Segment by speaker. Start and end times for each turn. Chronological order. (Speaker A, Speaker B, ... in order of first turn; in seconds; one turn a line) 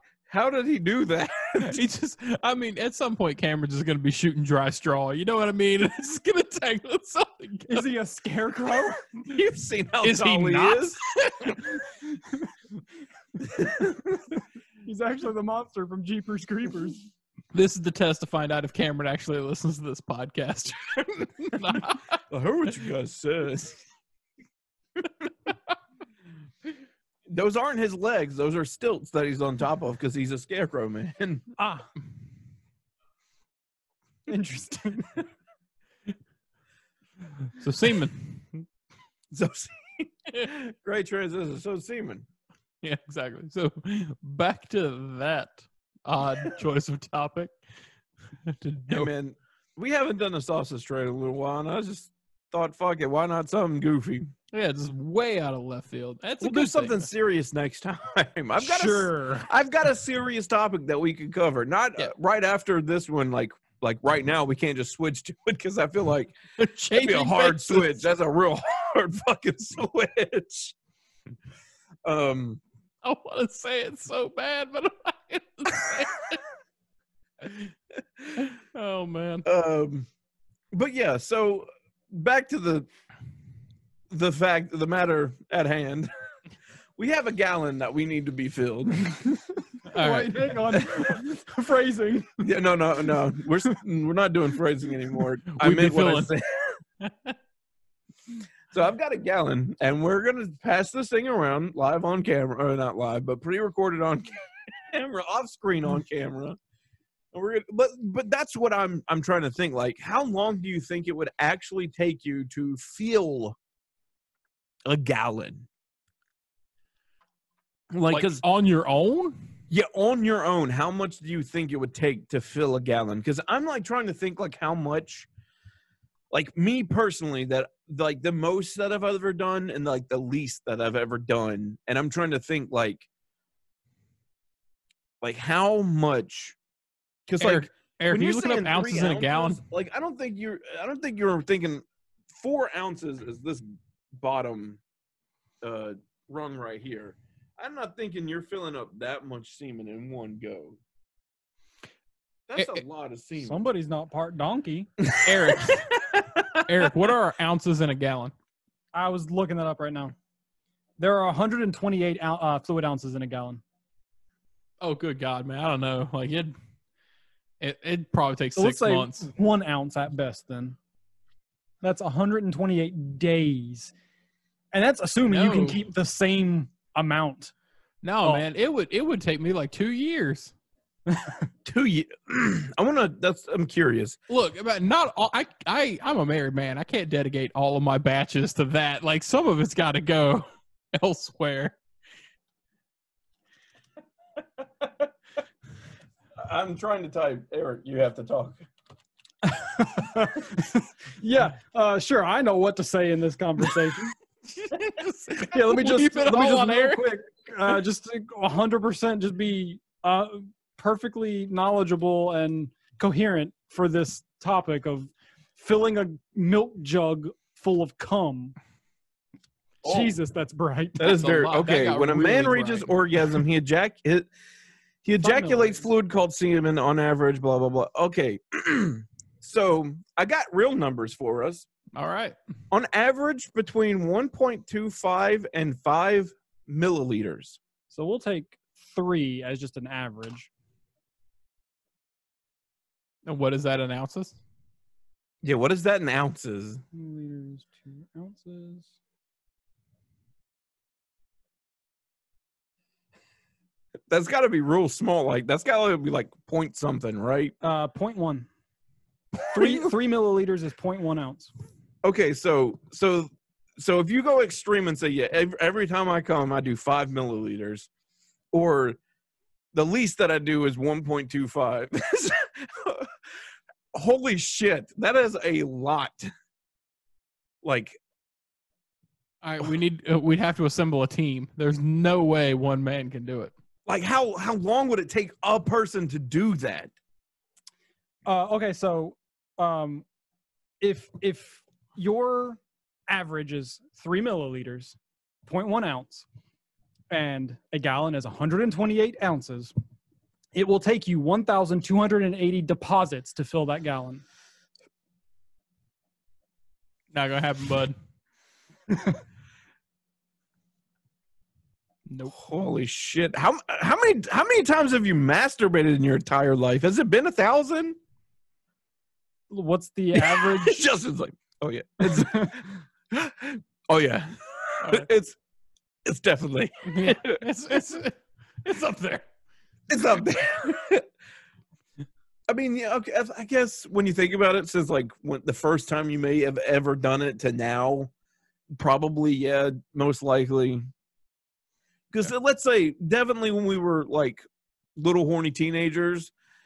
Speaker A: 0.3-1.8
Speaker B: 1.6-7.9
Speaker C: 7.7-9.0
Speaker A: 9.2-11.6
Speaker B: 10.0-11.7
Speaker A: 13.4-14.3
Speaker C: 14.8-17.0
Speaker B: 17.5-22.2
Speaker A: 22.3-23.8
Speaker A: 27.3-31.4
Speaker C: 31.6-31.9
Speaker C: 34.3-35.2
Speaker B: 37.5-38.6
Speaker A: 39.3-42.3
Speaker B: 42.8-47.5
Speaker B: 48.4-49.1
Speaker A: 48.9-54.3
Speaker B: 54.5-57.0
Speaker A: 56.4-66.4
Speaker C: 58.6-59.5
Speaker B: 66.6-67.9
Speaker A: 66.9-70.7
Speaker A: 72.0-72.6
Speaker B: 73.0-76.4
Speaker B: 77.4-77.7
Speaker B: 78.3-79.5
Speaker A: 79.4-80.1
Speaker A: 80.7-82.9
Speaker A: 84.1-86.1
Speaker A: 87.0-89.4
Speaker C: 89.8-92.4
Speaker B: 89.9-90.6
Speaker A: 90.8-91.0
Speaker A: 92.4-96.8
Speaker B: 95.5-96.3
Speaker B: 97.0-97.3
Speaker A: 98.7-106.6
Speaker A: 107.3-113.5
Speaker A: 114.8-115.7
Speaker A: 117.9-118.4
Speaker B: 118.1-119.4
Speaker A: 119.7-125.3
Speaker A: 126.3-133.1
Speaker A: 135.2-136.6
Speaker A: 137.3-144.8
Speaker B: 137.4-139.6
Speaker A: 145.6-150.8
Speaker A: 152.5-153.7
Speaker C: 153.4-154.9
Speaker A: 155.0-156.6
Speaker B: 155.2-156.0
Speaker B: 156.5-158.3
Speaker C: 158.9-160.1
Speaker C: 161.0-163.6
Speaker B: 164.8-166.5
Speaker B: 167.6-169.3
Speaker C: 168.6-170.8
Speaker C: 171.8-173.9
Speaker C: 174.7-177.5
Speaker B: 175.2-175.8
Speaker B: 178.0-180.5
Speaker C: 181.1-181.4
Speaker A: 181.6-184.2
Speaker B: 184.3-191.8
Speaker A: 194.6-195.1
Speaker A: 196.4-198.6
Speaker C: 199.4-204.1
Speaker B: 204.5-207.1
Speaker C: 205.4-218.5
Speaker A: 219.8-220.1
Speaker C: 219.8-221.2
Speaker A: 221.0-224.3
Speaker B: 221.0-223.0
Speaker A: 225.0-231.7
Speaker C: 225.2-225.8
Speaker B: 231.9-232.3
Speaker A: 232.7-237.6
Speaker C: 237.9-240.5
Speaker B: 243.2-244.4
Speaker A: 245.4-246.8
Speaker C: 246.9-248.9
Speaker A: 254.1-257.5
Speaker C: 257.6-258.5
Speaker C: 259.5-261.5
Speaker A: 259.5-259.9
Speaker A: 262.0-267.9
Speaker A: 268.5-269.0
Speaker A: 269.7-273.1
Speaker A: 273.9-276.3
Speaker A: 277.6-278.0
Speaker B: 279.4-283.5
Speaker A: 283.9-286.9
Speaker C: 288.2-290.0
Speaker C: 290.8-296.3
Speaker C: 297.1-299.7
Speaker C: 300.5-304.2
Speaker B: 307.1-307.9
Speaker B: 312.1-312.3
Speaker A: 312.3-318.0
Speaker C: 319.5-320.9
Speaker A: 320.1-325.4
Speaker C: 322.1-322.6
Speaker A: 326.0-327.4
Speaker B: 326.9-329.2
Speaker A: 329.9-331.1
Speaker A: 332.5-338.1
Speaker A: 338.7-340.8
Speaker A: 342.1-344.4
Speaker A: 344.9-346.3